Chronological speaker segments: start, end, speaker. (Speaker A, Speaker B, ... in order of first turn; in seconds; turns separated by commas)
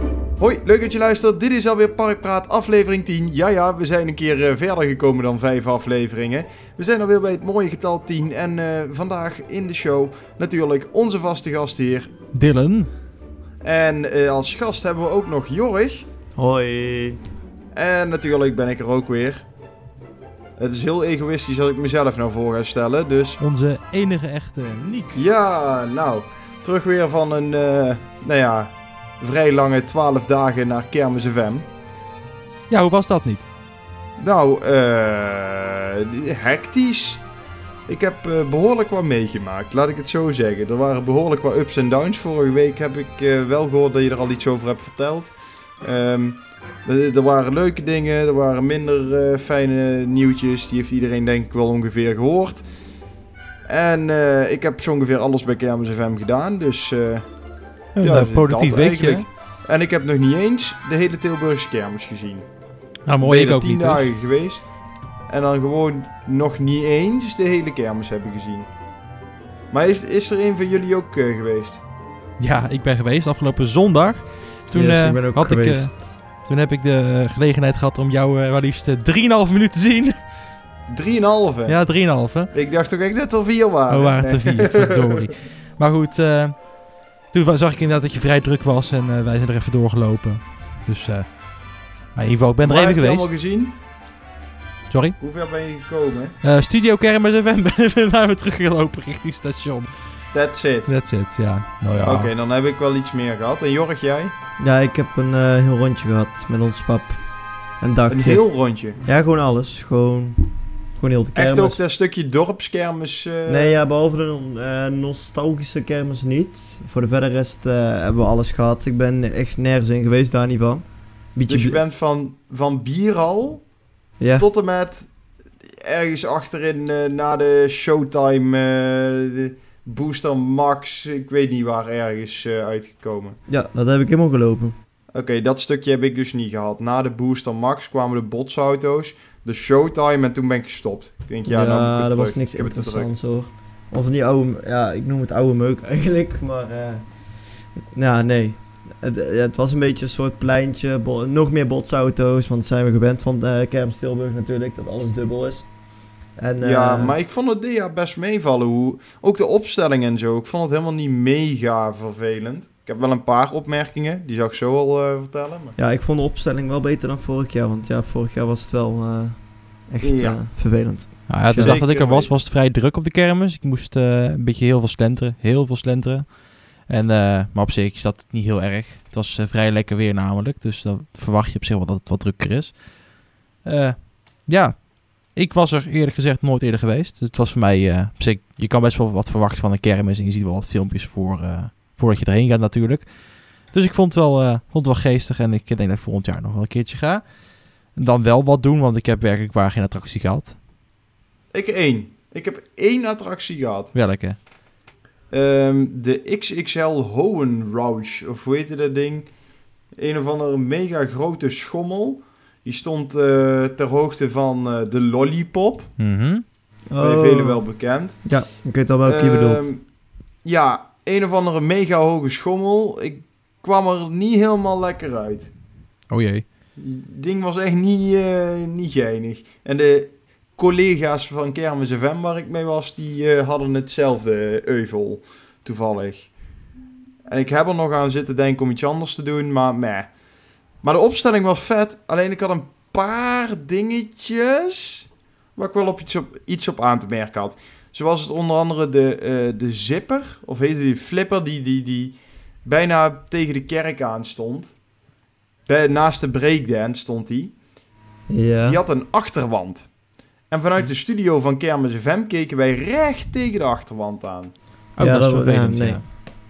Speaker A: 0.4-12.1, Speaker B: 12.3-12.9, Speaker A: 13.6-16.1, Speaker C: 16.4-17.2, Speaker A: 17.7-19.5, Speaker A: 20.6-23.4, Speaker B: 23.4-25.2, Speaker A: 25.1-31.7, Speaker B: 32.7-33.5, Speaker A: 34.2-37.2, Speaker A: 37.9-52.7, Speaker A: 53.7-57.3, Speaker B: 58.0-59.3, Speaker A: 58.0-62.5, Speaker B: 63.1-64.1, Speaker A: 63.2-68.7, Speaker A: 69.7-71.8, Speaker B: 72.4-80.5, Speaker C: 74.7-76.1, Speaker A: 80.9-85.2, Speaker B: 81.7-82.5, Speaker B: 83.9-93.3, Speaker A: 92.6-93.8, Speaker B: 94.9-95.2, Speaker A: 95.2-96.4, Speaker B: 96.4-100.3, Speaker A: 100.3-101.0, Speaker B: 100.9-102.3, Speaker A: 102.0-104.3, Speaker C: 104.6-111.8, Speaker A: 108.1-109.0, Speaker A: 111.3-113.8, Speaker C: 113.5-121.8, Speaker A: 121.5-123.7, Speaker C: 124.2-124.5, Speaker A: 124.4-133.4, Speaker C: 133.5-134.8, Speaker A: 135.1-143.1, Speaker C: 141.4-147.2, Speaker C: 147.8-155.7, Speaker C: 156.3-157.2, Speaker A: 156.6-165.8, Speaker C: 165.8-171.8, Speaker A: 170.0-170.4, Speaker B: 171.3-200.6, Speaker A: 171.6-172.4, Speaker A: 201.5-203.9, Speaker B: 203.9-204.4, Speaker A: 205.3-215.9, Speaker B: 216.0-216.5, Speaker C: 216.9-217.7, Speaker A: 217.0-218.4, Speaker C: 218.2-219.7, Speaker A: 219.0-225.5, Speaker B: 226.1-226.4, Speaker A: 226.8-236.6, Speaker A: 237.2-240.2, Speaker A: 240.8-254.8, Speaker A: 255.7-257.6, Speaker C: 258.3-258.8, Speaker A: 258.6-264.6, Speaker B: 265.0-266.1, Speaker C: 265.0-266.2